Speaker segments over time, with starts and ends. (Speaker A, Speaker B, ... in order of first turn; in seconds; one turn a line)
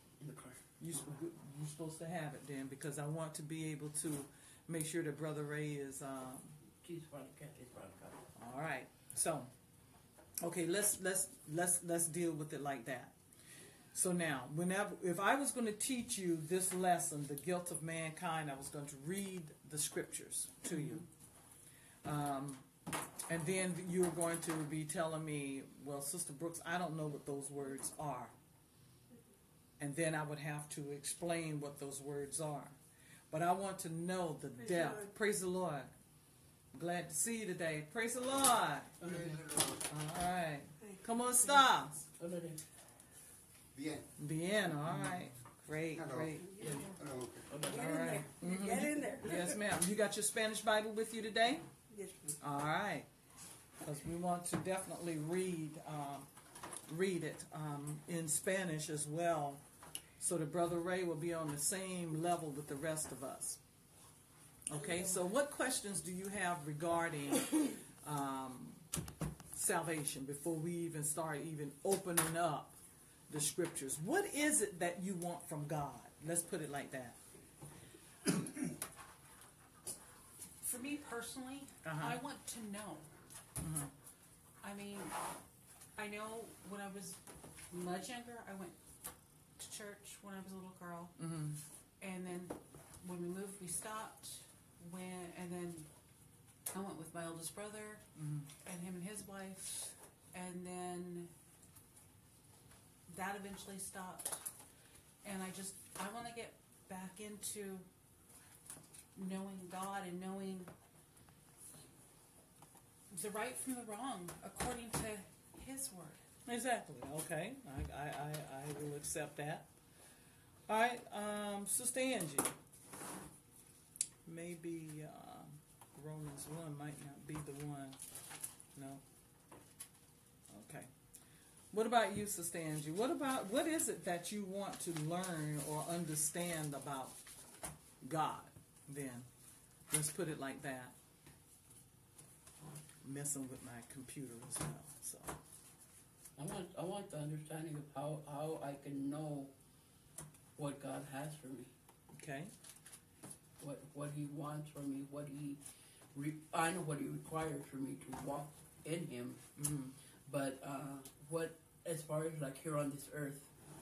Speaker A: 0.2-0.6
Speaker B: 0.8-6.6
Speaker A: 6.8-8.2
Speaker B: 8.3-9.5
Speaker B: 10.4-13.1
Speaker B: 13.9-21.0
Speaker B: 22.0-22.6
Speaker B: 23.3-28.3
Speaker B: 29.8-32.8
Speaker B: 33.3-35.9
Speaker B: 36.7-38.9
Speaker A: 39.0-39.5
Speaker C: 39.1-39.8
Speaker B: 39.9-42.1
Speaker A: 42.2-42.6
Speaker C: 43.7-44.1
Speaker B: 44.2-46.5
Speaker C: 45.9-47.5
Speaker A: 46.6-48.2
Speaker D: 46.6-46.9
Speaker D: 47.6-49.5
Speaker B: 47.7-51.6
Speaker D: 51.9-52.3
Speaker B: 52.4-53.1
Speaker B: 53.8-56.3
Speaker B: 56.9-59.6
Speaker B: 60.2-63.6
Speaker B: 64.7-68.8
Speaker B: 69.5-72.8
Speaker B: 73.3-77.2
Speaker E: 80.6-83.1
Speaker B: 81.8-82.2
Speaker B: 83.6-83.9
Speaker E: 84.6-85.1
Speaker E: 86.0-87.2
Speaker E: 87.7-88.8
Speaker E: 89.6-91.1
Speaker B: 91.2-91.6
Speaker E: 92.0-95.9
Speaker E: 96.7-98.0
Speaker B: 98.2-98.5
Speaker E: 98.6-101.3
Speaker E: 103.1-104.4
Speaker E: 105.2-107.8
Speaker E: 109.1-110.7
Speaker E: 113.1-116.2
Speaker B: 116.5-119.6
Speaker B: 120.7-122.5
Speaker B: 124.2-128.0
Speaker B: 128.8-129.0
Speaker B: 130.5-130.9
Speaker B: 131.7-137.2
Speaker B: 138.0-139.3
Speaker B: 139.9-140.9
Speaker B: 143.0-145.4
Speaker A: 146.4-149.5
Speaker A: 150.6-151.7
Speaker B: 152.1-152.5
Speaker A: 153.6-155.6
Speaker A: 156.1-159.4
Speaker B: 159.6-159.9
Speaker A: 160.2-163.5